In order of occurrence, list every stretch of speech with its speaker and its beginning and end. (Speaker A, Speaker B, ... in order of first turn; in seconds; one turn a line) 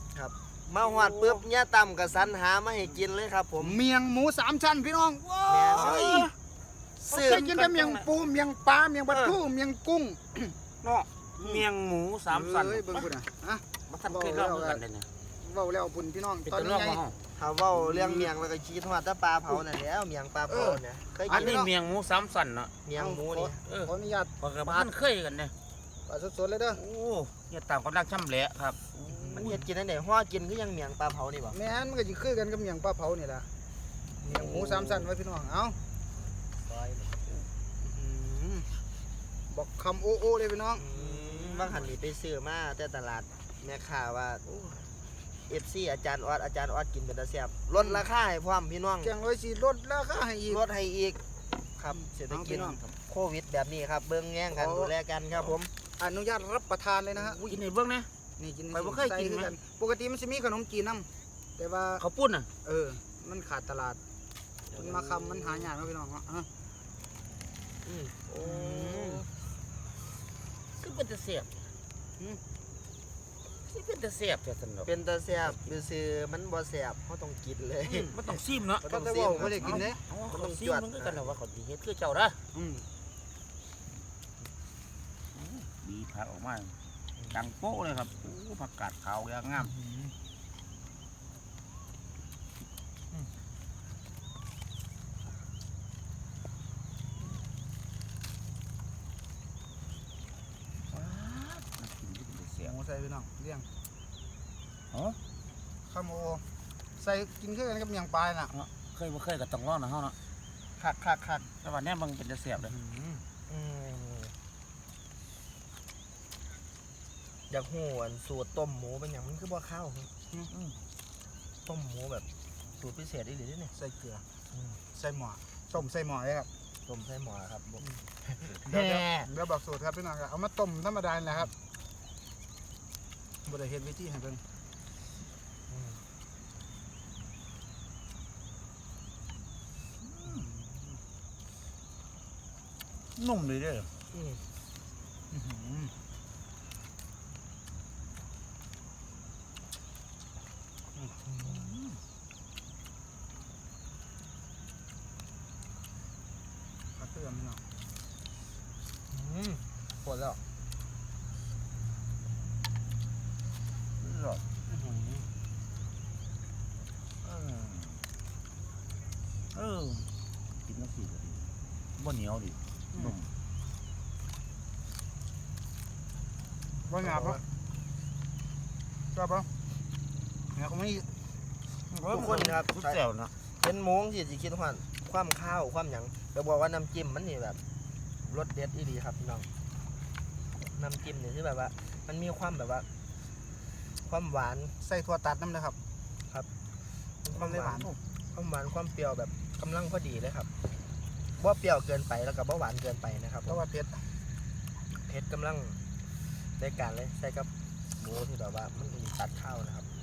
Speaker A: 0.1-3.8
Speaker B: 0.8-1.4
Speaker C: 3.6-6.3
Speaker A: 5.5-6.3
Speaker B: 5.7-6.3
Speaker B: 7.1-8.1
Speaker A: 7.1-7.4
Speaker C: 7.1-10.6
Speaker B: 10.8-13.1
Speaker C: 12.3-14.8
Speaker B: 13.9-15.1
Speaker C: 15.4-17.0
Speaker B: 16.4-17.2
Speaker A: 17.4-21.6
Speaker C: 20.5-21.7
Speaker B: 21.3-22.7
Speaker A: 22.9-23.6
Speaker C: 23.0-24.9
Speaker B: 23.6-25.5
Speaker C: 26.1-26.8
Speaker B: 26.7-29.6
Speaker C: 29.2-29.6
Speaker A: 29.3-31.6
Speaker C: 31.5-33.5
Speaker C: 34.2-35.8
Speaker B: 34.2-35.1
Speaker A: 36.7-37.1
Speaker C: 37.9-38.7
Speaker C: 39.5-40.9
Speaker A: 40.8-44.4
Speaker B: 40.9-42.0
Speaker B: 44.5-44.9
Speaker A: 45.5-49.1
Speaker C: 49.0-50.6
Speaker A: 50.5-51.2
Speaker A: 51.8-55.7
Speaker C: 52.3-52.8
Speaker C: 54.5-54.9
Speaker C: 56.0-57.4
Speaker B: 57.1-58.1
Speaker C: 58.4-62.0
Speaker B: 58.7-59.6
Speaker B: 62.0-62.5
Speaker C: 62.6-64.0
Speaker A: 64.8-65.7
Speaker C: 64.8-66.5
Speaker A: 67.8-69.3
Speaker B: 68.3-69.3
Speaker B: 70.8-71.7
Speaker B: 73.6-74.9
Speaker A: 74.9-81.4
Speaker B: 75.4-75.7
Speaker B: 77.8-78.9
Speaker C: 78.9-80.0
Speaker B: 79.4-82.4
Speaker C: 82.6-82.8
Speaker B: 85.3-86.8
Speaker B: 87.3-89.8
Speaker C: 89.7-90.1
Speaker B: 100.9-102.8
Speaker C: 102.7-103.7
Speaker B: 104.9-105.2
Speaker C: 105.9-106.4
Speaker C: 107.0-108.5
Speaker B: 108.5-110.2
Speaker A: 110.8-111.5
Speaker B: 111.6-112.8
Speaker A: 113.5-114.3
Speaker A: 117.5-120.1
Speaker B: 120.5-120.8
Speaker A: 121.7-122.2
Speaker A: 122.8-123.7
Speaker C: 123.8-124.2
Speaker A: 124.5-124.8
Speaker C: 125.0-126.5
Speaker A: 126.8-129.3
Speaker C: 128.7-131.4
Speaker C: 133.5-134.4
Speaker A: 135.7-136.0
Speaker B: 140.0-140.5
Speaker C: 140.4-140.7
Speaker B: 143.2-143.9
Speaker A: 144.1-144.4
Speaker C: 145.3-145.9
Speaker A: 151.3-151.7
Speaker C: 157.0-157.6
Speaker A: 159.1-160.4
Speaker B: 164.0-164.4
Speaker A: 164.7-165.3
Speaker B: 167.2-168.1
Speaker B: 169.5-170.1
Speaker B: 170.7-173.3
Speaker C: 176.9-177.4
Speaker A: 177.0-177.4
Speaker C: 179.1-179.5
Speaker C: 180.6-181.1
Speaker B: 181.9-183.3
Speaker A: 182.1-183.0
Speaker A: 183.6-187.6
Speaker A: 188.2-189.5
Speaker A: 190.7-192.9
Speaker A: 194.0-194.8
Speaker C: 194.8-195.8
Speaker A: 197.2-200.5
Speaker A: 201.4-203.6
Speaker C: 203.5-204.0
Speaker A: 204.9-205.8
Speaker A: 206.6-209.9